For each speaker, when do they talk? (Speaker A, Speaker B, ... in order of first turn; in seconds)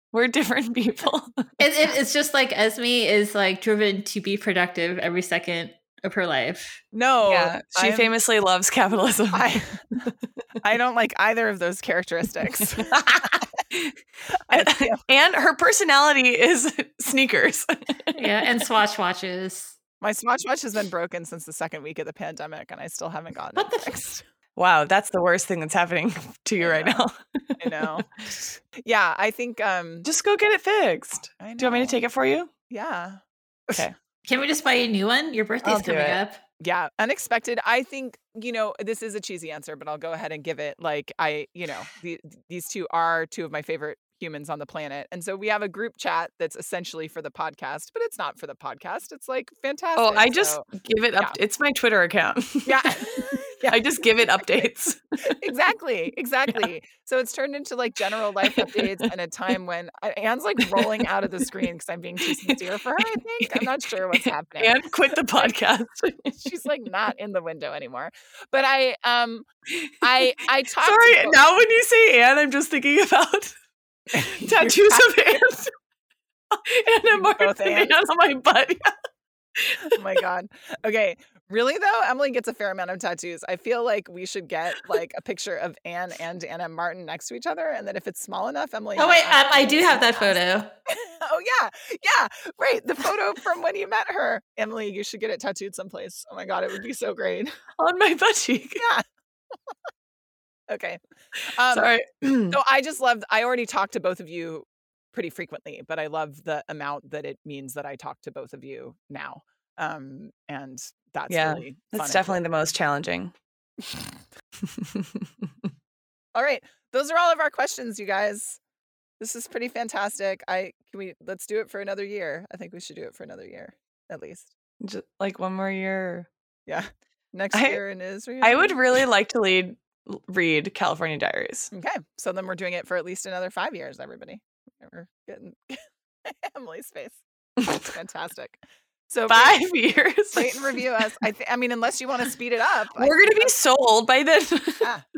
Speaker A: 0.1-1.6, 7.2-10.1, 12.6-13.9, 14.5-18.7, 24.6-27.9, 30.1-32.5, 35.6-36.2, 50.0-55.0, 58.5-58.9, 60.7-61.0, 62.3-62.6, 63.5-66.4, 70.8-73.5, 74.2-75.7, 76.5-78.9, 79.6-80.2, 97.8-98.8, 101.7-102.6, 111.3-113.3, 114.6-115.7, 124.8-126.3, 127.5-127.8, 128.4-131.7, 139.3-140.8, 143.0-144.9
Speaker B: 1.6-6.8, 18.1-19.8, 23.6-24.1, 34.2-36.4, 89.0-90.7
Speaker C: 6.9-8.1, 9.3-9.9, 10.6-13.5, 14.5-15.0, 20.0-24.2, 26.6-27.1, 27.6-30.1, 31.4-32.0, 32.7-33.9, 36.6-51.4, 52.6-54.7, 55.3-65.5, 66.3-69.5, 70.0-71.4, 74.1-75.4, 77.1-78.0, 80.0-97.5, 98.8-99.0, 100.7-101.0, 101.5-101.9, 102.5-112.4, 116.3-118.6, 119.2-124.5, 126.7-129.0, 131.7-137.2, 137.8-139.6, 140.3-143.5